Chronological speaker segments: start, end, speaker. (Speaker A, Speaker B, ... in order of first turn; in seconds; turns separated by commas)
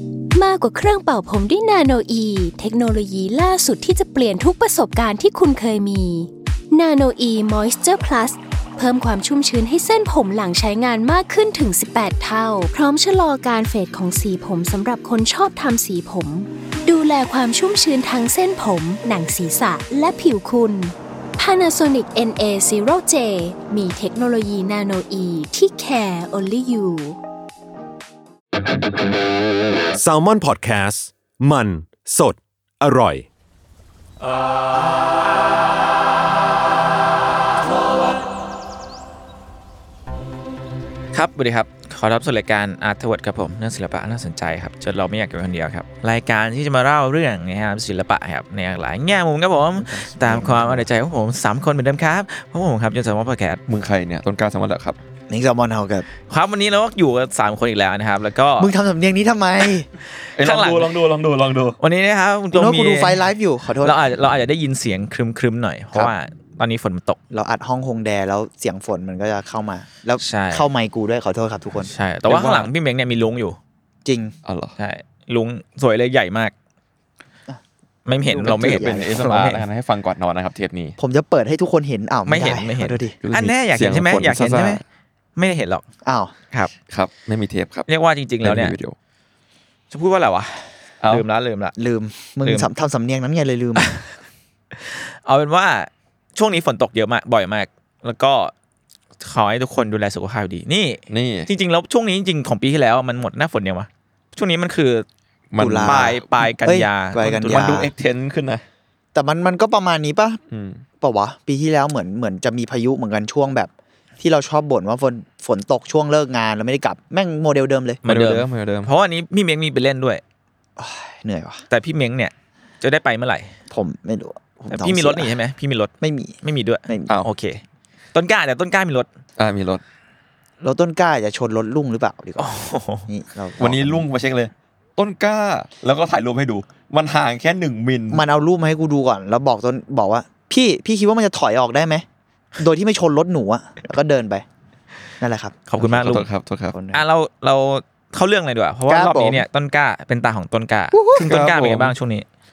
Speaker A: 0.3-27.2, Speaker B: 29.9-33.2, Speaker C: 41.1-53.6, Speaker D: 49.8-50.9, Speaker E: 53.7-55.0, Speaker D: 55.3-56.0, Speaker C: 56.3-58.7, Speaker D: 58.6-59.9, Speaker C: 60.2-60.9, Speaker E: 60.4-61.8, Speaker C: 61.8-63.2, Speaker D: 62.5-64.0, Speaker C: 63.8-67.2, Speaker D: 67.3-71.9, Speaker C: 70.2-70.7, Speaker C: 71.8-73.6, Speaker E: 72.3-72.7, Speaker D: 74.0-74.3, Speaker E: 74.4-74.7, Speaker C: 74.8-76.5, Speaker C: 78.0-79.6, Speaker D: 78.1-79.2, Speaker E: 78.4-81.0, Speaker D: 81.0-83.1, Speaker C: 82.3-84.8, Speaker E: 83.2-84.8, Speaker C: 85.3-85.8, Speaker D: 86.0-86.3, Speaker E: 86.9-87.9, Speaker C: 87.9-88.7, Speaker E: 88.4-89.0, Speaker C: 89.9-91.7, Speaker D: 91.8-93.9, Speaker C: 94.7-98.5, Speaker C: 99.2-105.0, Speaker E: 101.1-101.5, Speaker E: 105.5-106.2, Speaker D: 105.6-107.9, Speaker C: 105.8-107.8, Speaker E: 107.5-108.6, Speaker D: 109.1-110.4, Speaker E: 110.5-110.8, Speaker D: 111.0-118.0, Speaker C: 118.0-120.2, Speaker E: 118.0-118.9, Speaker D: 120.8-121.6, Speaker C: 121.7-123.5, Speaker D: 123.7-125.3, Speaker C: 124.7-127.6, Speaker D: 126.0-126.3, Speaker C: 128.1-129.1, Speaker E: 129.4-129.8, Speaker D: 130.6-134.0, Speaker C: 132.4-133.1, Speaker E: 133.6-138.2, Speaker D: 138.1-142.0, Speaker D: 142.6-144.4, Speaker D: 145.2-145.5, Speaker C: 145.7-146.3, Speaker E: 145.8-146.8, Speaker D: 146.7-147.0, Speaker C: 146.9-152.2, Speaker D: 148.9-149.4, Speaker D: 150.9-151.2, Speaker E: 151.2-151.9